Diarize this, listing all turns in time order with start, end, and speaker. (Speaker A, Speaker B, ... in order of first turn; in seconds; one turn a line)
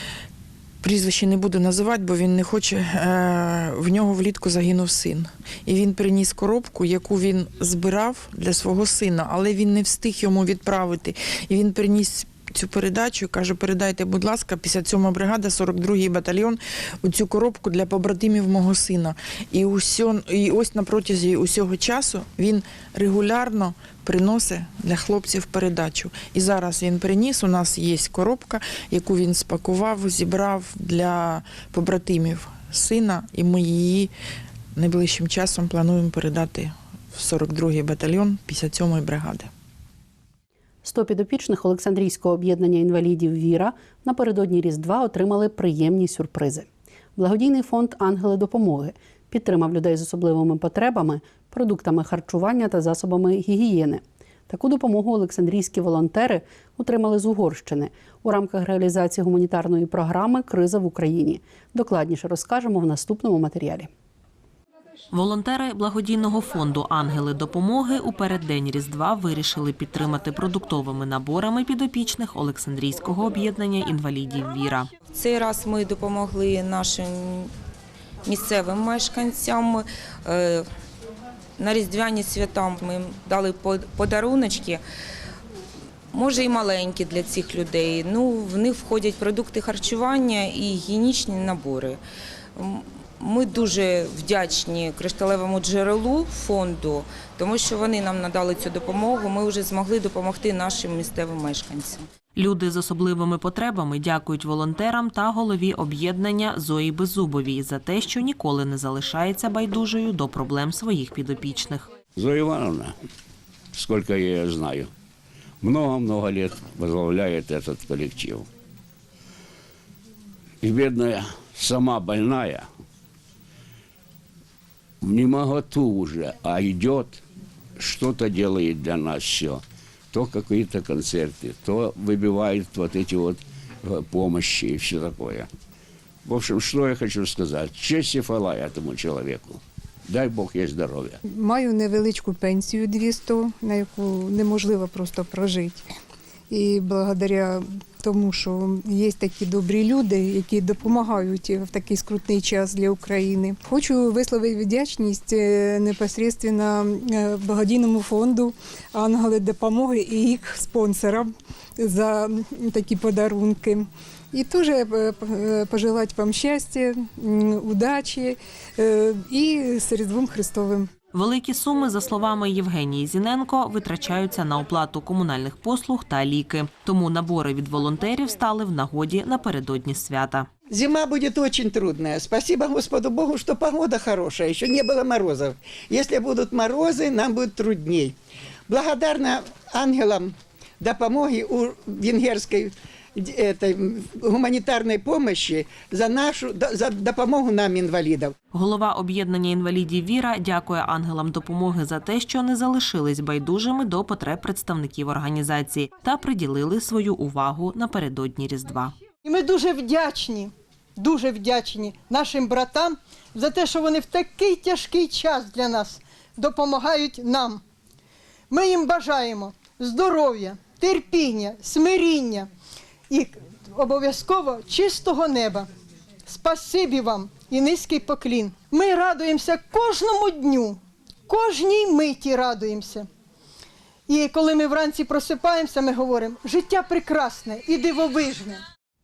Speaker A: 0.8-34.1
Speaker A: 34.8-39.5
Speaker B: 40.8-63.9
Speaker C: 65.1-74.9
Speaker D: 75.1-77.5
Speaker D: 78.2-80.6
Speaker D: 81.6-84.8
Speaker D: 86.1-92.0
Speaker D: 92.6-102.0
Speaker C: 102.3-111.9
Speaker E: 112.2-112.9
Speaker E: 113.8-114.9
Speaker E: 115.6-118.4
Speaker E: 120.6-122.6
Speaker E: 125.0-127.1
Speaker E: 127.8-129.5
Speaker E: 130.1-135.5
Speaker E: 136.2-139.6
Speaker E: 140.1-141.1
Speaker F: 141.2-145.9
Speaker F: 146.5-170.9
Speaker C: 171.1-180.5
Speaker G: 180.7-188.1
Speaker G: 188.7-198.3
Speaker C: 198.5-208.9
Speaker H: 209.2-217.6
Speaker H: 218.5-222.5
Speaker H: 223.1-225.7
Speaker H: 226.3-233.1
Speaker H: 234.1-238.6